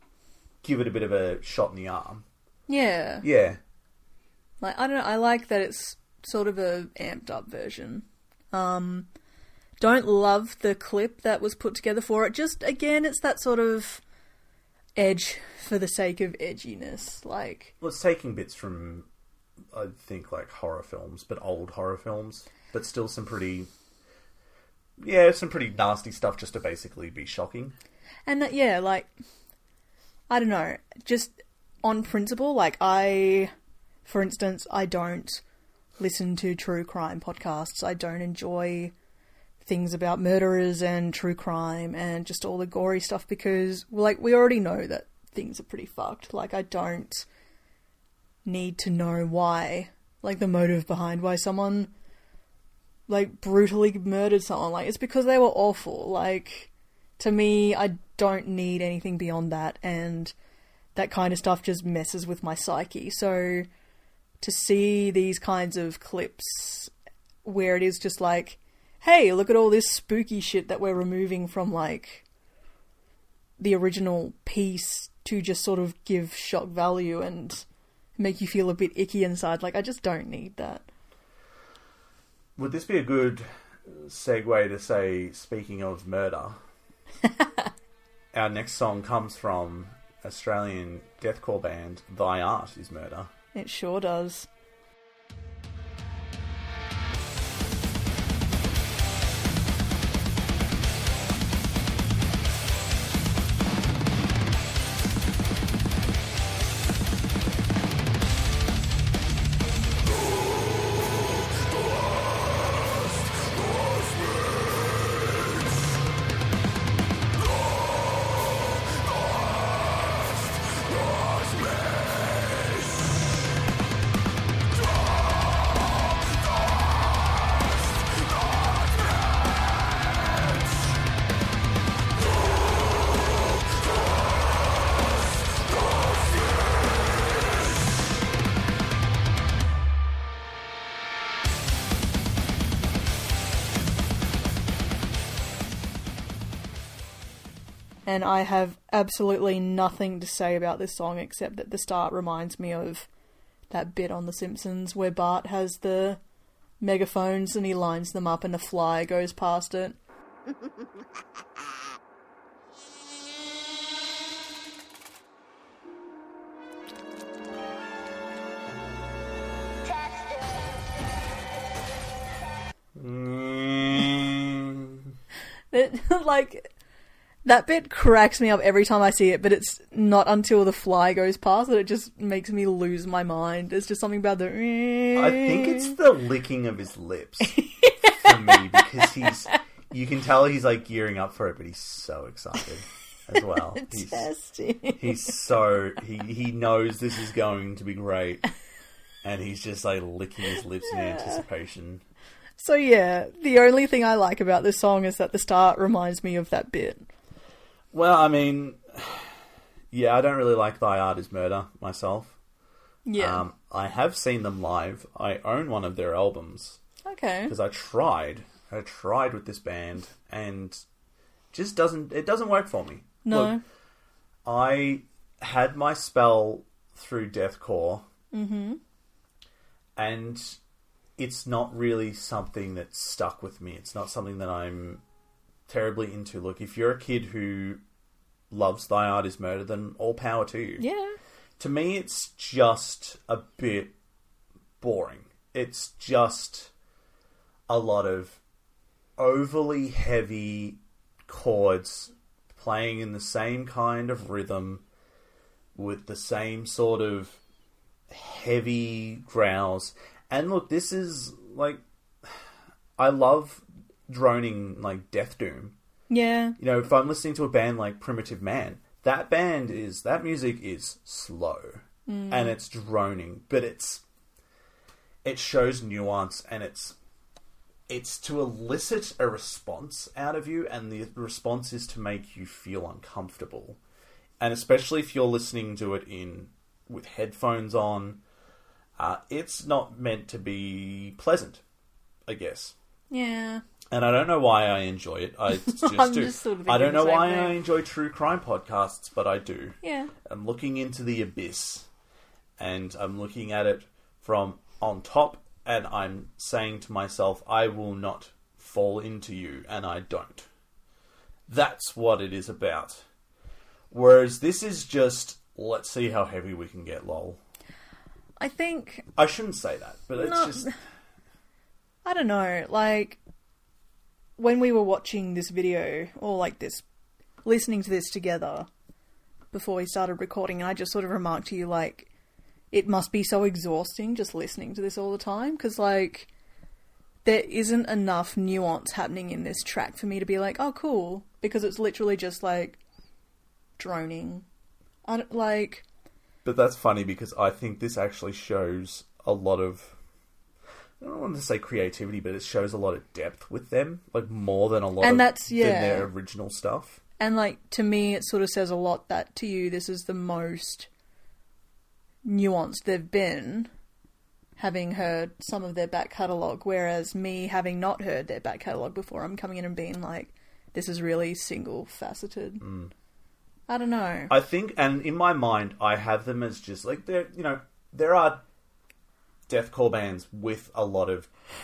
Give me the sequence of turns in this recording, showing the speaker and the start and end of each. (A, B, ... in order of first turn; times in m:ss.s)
0:00.6-0:02.2 A
0:02.7-0:03.2 B
0:03.2-0:03.6 A
0:04.6-0:09.1 B
0:09.8-0:14.0 B
0:15.0-0:17.7 B
0:17.8-0:19.1 A
0:19.7-0:23.7 A
0:25.0-0:27.7 A
0:28.2-0:29.1 B
0:30.3-0:33.5 B
0:34.0-0:35.4 B
0:36.0-0:38.9 B
0:39.6-0:47.2 B
0:48.4-0:51.9 B
0:53.1-1:00.3 B
1:00.9-1:03.7 B
1:04.4-1:06.9 B
1:07.4-1:12.2 B
1:13.6-1:17.6 B
1:18.2-1:20.8 B
1:22.6-1:26.6 A
1:28.3-1:33.3 A
1:33.5-1:34.5 B
2:28.0-2:33.1 B
2:33.7-2:36.2 B
2:36.8-2:40.0 B
2:52.9-2:55.1 A
2:55.7-2:56.7 B
2:57.4-3:05.9 B
3:05.1-3:14.3 A
3:07.5-3:08.8 B
3:13.7-3:15.3 B
3:15.0-3:18.4 A
3:19.2-3:22.0 A
3:20.9-3:21.4 B
3:22.6-3:27.1 B
3:27.9-3:29.3 A
3:29.9-3:32.4 A
3:33.0-3:33.4 B
3:33.2-3:36.8 A
3:37.0-3:37.5 B
3:37.5-3:40.8 A
3:41.5-3:43.6 A
3:43.2-3:43.6 B
3:44.4-3:48.1 A
3:48.3-3:48.8 B
3:50.0-3:50.6 A
3:51.2-3:55.0 A
3:55.7-3:57.8 A
3:58.5-4:00.8 A
4:00.8-4:01.2 B
4:01.6-4:03.9 A
4:04.8-4:06.7 A
4:07.7-4:08.4 A
4:09.2-4:14.8 A
4:15.7-4:17.4 A
4:18.1-4:22.3 A
4:23.0-4:25.8 A
4:26.1-4:26.6 B
4:26.6-4:34.0 A
4:32.1-4:32.5 B
4:35.2-4:37.0 A
4:37.9-4:43.8 A
4:44.4-4:48.2 A
4:49.0-4:51.6 A
4:52.3-4:52.7 A
4:53.1-4:53.6 B
4:53.9-5:01.9 A
4:55.5-4:57.6 B
4:59.8-5:00.1 B
5:02.6-5:10.5 A
5:11.5-5:13.0 A
5:13.9-5:17.4 A
5:18.4-5:19.1 B
5:19.2-5:20.7 A
5:20.2-5:20.7 B
5:22.0-5:23.2 B
5:24.4-5:26.8 B
5:27.4-5:28.7 B
5:29.5-5:32.1 B
5:32.7-5:36.3 B
5:37.2-5:42.8 B
5:43.8-5:44.4 B
5:45.0-5:45.8 B
5:46.4-5:50.0 A
5:51.0-5:57.0 A
5:55.0-5:56.1 B
5:57.2-6:00.9 B
6:02.2-6:03.7 B
6:04.6-6:12.6 B
6:12.6-6:12.9 A
6:13.7-6:14.3 B
6:14.3-6:18.4 A
6:19.5-6:21.3 A